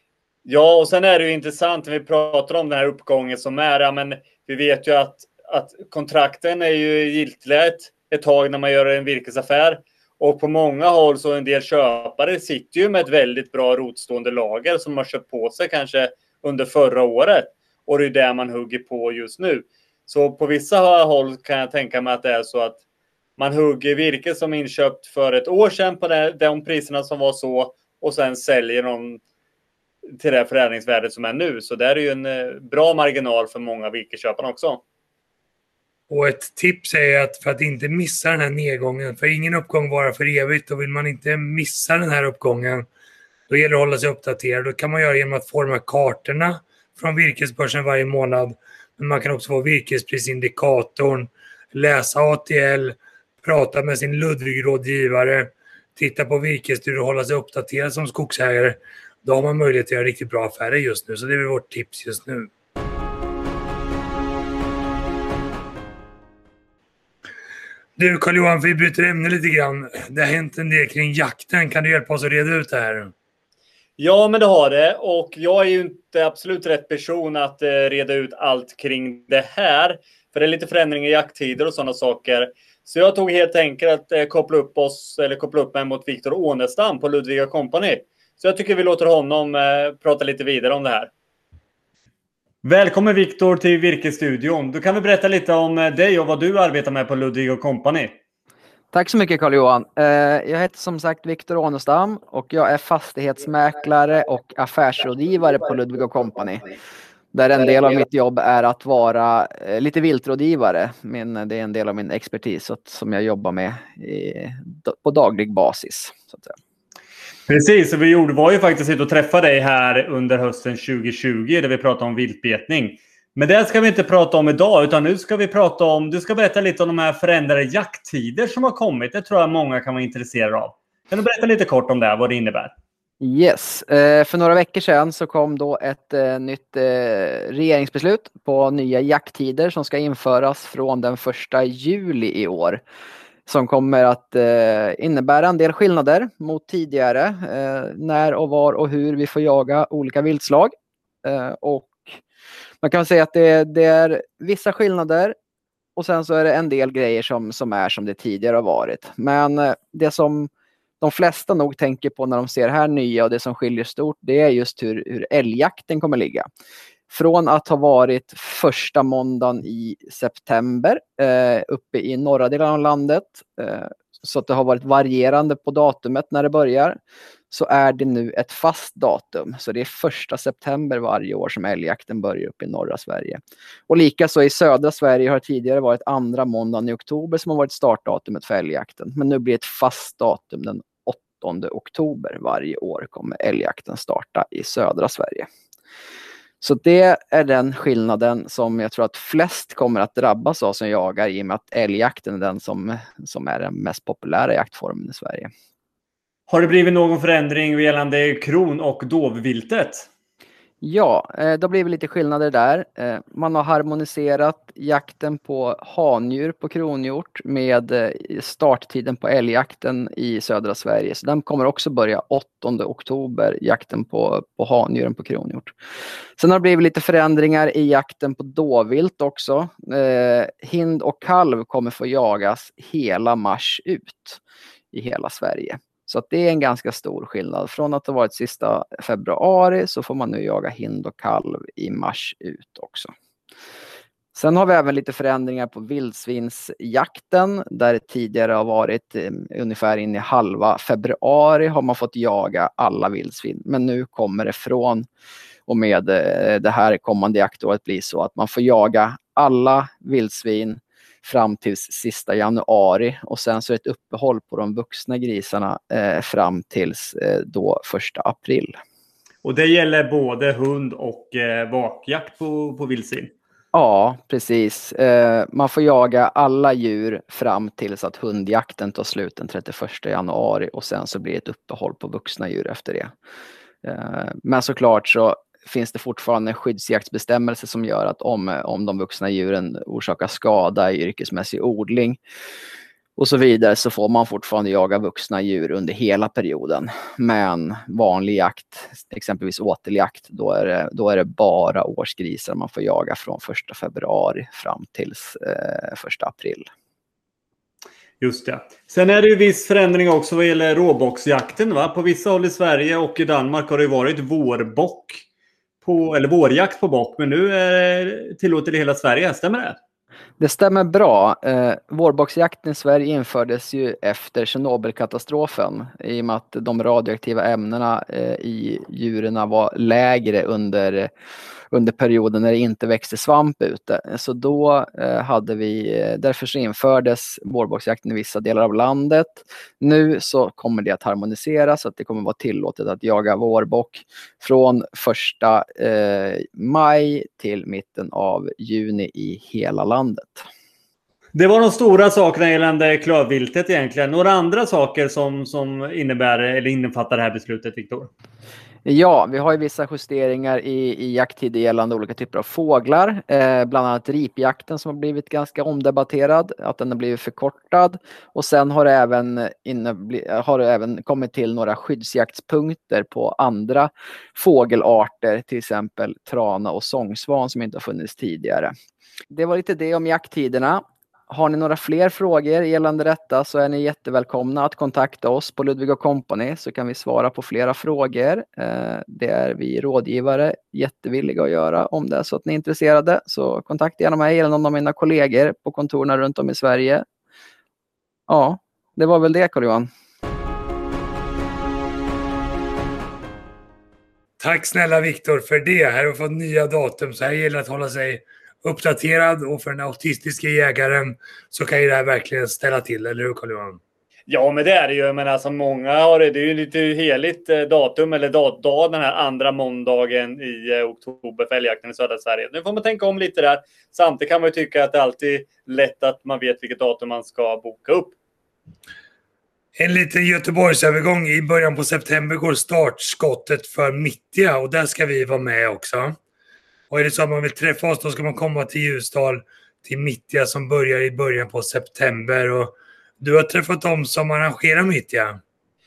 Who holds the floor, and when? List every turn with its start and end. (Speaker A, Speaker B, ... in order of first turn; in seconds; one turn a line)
Speaker A: 0.4-22.8
Speaker A: 23.4-29.2
Speaker A: 30.2-34.8
Speaker B: 36.1-42.9
Speaker B: 43.5-62.5
Speaker B: 68.0-73.1
Speaker A: 74.0-91.1
Speaker A: 92.6-98.1
Speaker C: 98.9-106.7
Speaker C: 107.3-116.5
Speaker A: 117.5-132.7
Speaker C: 133.2-142.8
Speaker C: 143.5-150.7
Speaker C: 151.2-152.1
Speaker C: 152.8-155.3
Speaker C: 156.0-160.5
Speaker C: 161.0-166.4
Speaker C: 167.1-177.0
Speaker C: 177.5-195.5
Speaker C: 196.6-205.5
Speaker A: 206.5-210.1
Speaker C: 210.8-225.7
Speaker C: 226.4-234.4
Speaker C: 234.9-243.1
Speaker C: 244.3-255.1
Speaker C: 255.7-268.8
Speaker A: 269.4-273.3
Speaker C: 273.7-283.1
Speaker C: 283.8-292.2
Speaker C: 293.2-306.7
Speaker A: 308.2-315.2
Speaker A: 315.8-319.8
Speaker C: 320.4-331.1
Speaker C: 331.7-350.4
Speaker A: 351.3-358.1
Speaker C: 358.8-378.7
Speaker C: 379.3-397.0
Speaker C: 398.3-399.9
Speaker B: 404.4-413.8
Speaker A: 414.3-428.1
Speaker B: 429.7-436.2
Speaker B: 436.9-445.4